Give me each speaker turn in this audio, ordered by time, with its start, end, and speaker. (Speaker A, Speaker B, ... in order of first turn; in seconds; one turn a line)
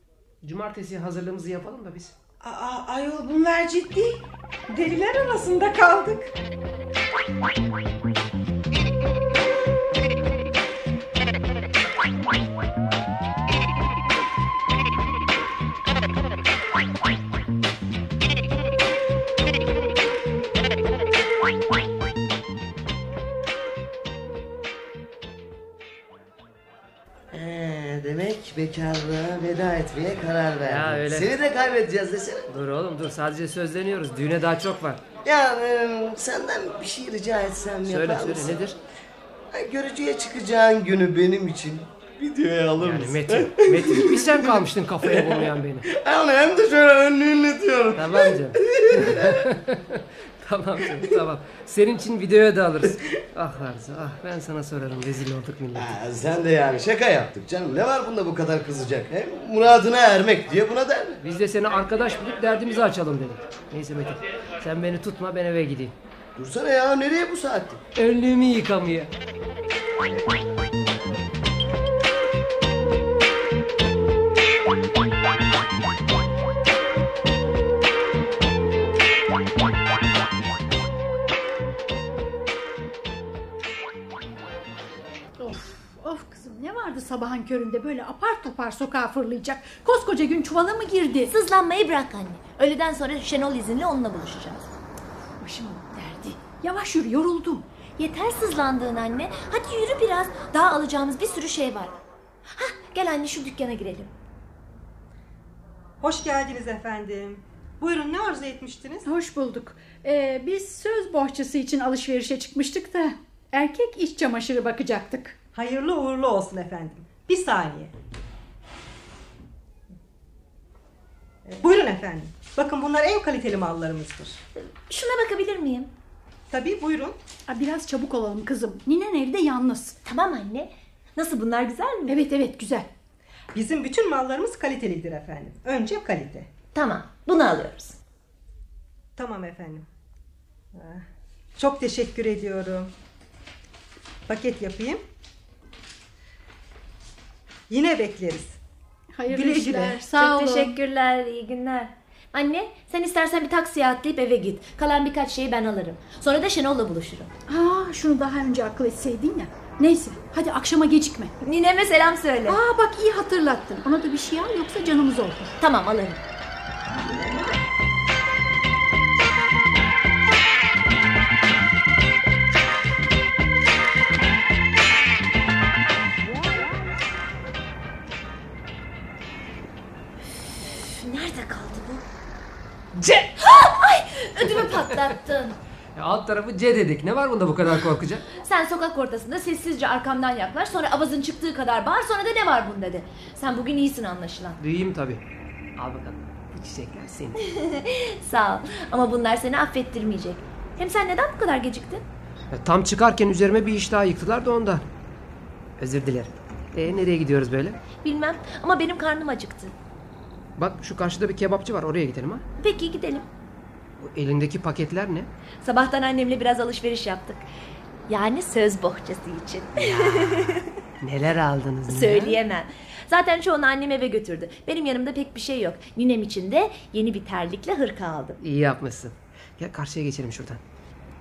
Speaker A: 0.4-2.1
Speaker B: 2.4-6.3
Speaker C: 27.3-32.5
Speaker A: 30.6-31.3
Speaker A: 32.5-35.0
Speaker C: 35.2-38.6
Speaker A: 37.9-38.8
Speaker C: 39.5-49.4
Speaker A: 42.8-45.9
Speaker A: 47.9-56.0
Speaker C: 55.7-61.2
Speaker A: 61.2-65.9
Speaker C: 66.3-67.8
Speaker A: 67.9-69.1
Speaker D: 85.4-91.3
Speaker E: 91.3-94.7
Speaker D: 95.4-97.6
Speaker E: 98.0-102.0
Speaker E: 102.5-104.1
Speaker F: 106.0-109.0
Speaker D: 109.0-115.3
Speaker F: 115.6-117.9
Speaker F: 121.6-124.3
Speaker E: 124.9-125.9
Speaker F: 126.5-127.1
Speaker D: 127.5-130.0
Speaker E: 130.0-132.2
Speaker D: 132.1-132.9
Speaker F: 133.5-136.4
Speaker E: 136.7-138.0
Speaker F: 139.2-139.8
Speaker F: 141.6-142.8
Speaker F: 144.3-145.0
Speaker F: 147.7-148.4
Speaker D: 149.1-150.7
Speaker F: 149.3-149.7
Speaker E: 150.1-157.3
Speaker D: 157.5-161.3
Speaker E: 161.4-162.6
Speaker D: 162.5-165.5
Speaker E: 165.6-166.2
Speaker E: 180.7-182.0
Speaker A: 182.9-183.4
Speaker E: 183.4-185.6
Speaker A: 184.6-184.9
Speaker A: 185.9-188.2
Speaker E: 188.3-194.6
Speaker A: 194.6-195.2
Speaker A: 195.8-197.4
Speaker E: 197.4-202.0
Speaker A: 202.5-204.9
Speaker A: 205.8-207.8
Speaker E: 208.0-209.7
Speaker A: 210.6-212.4
Speaker E: 212.6-213.2
Speaker A: 214.0-215.3
Speaker E: 215.6-217.4
Speaker E: 218.1-220.7
Speaker A: 219.7-222.4
Speaker E: 221.9-228.4
Speaker A: 228.4-230.6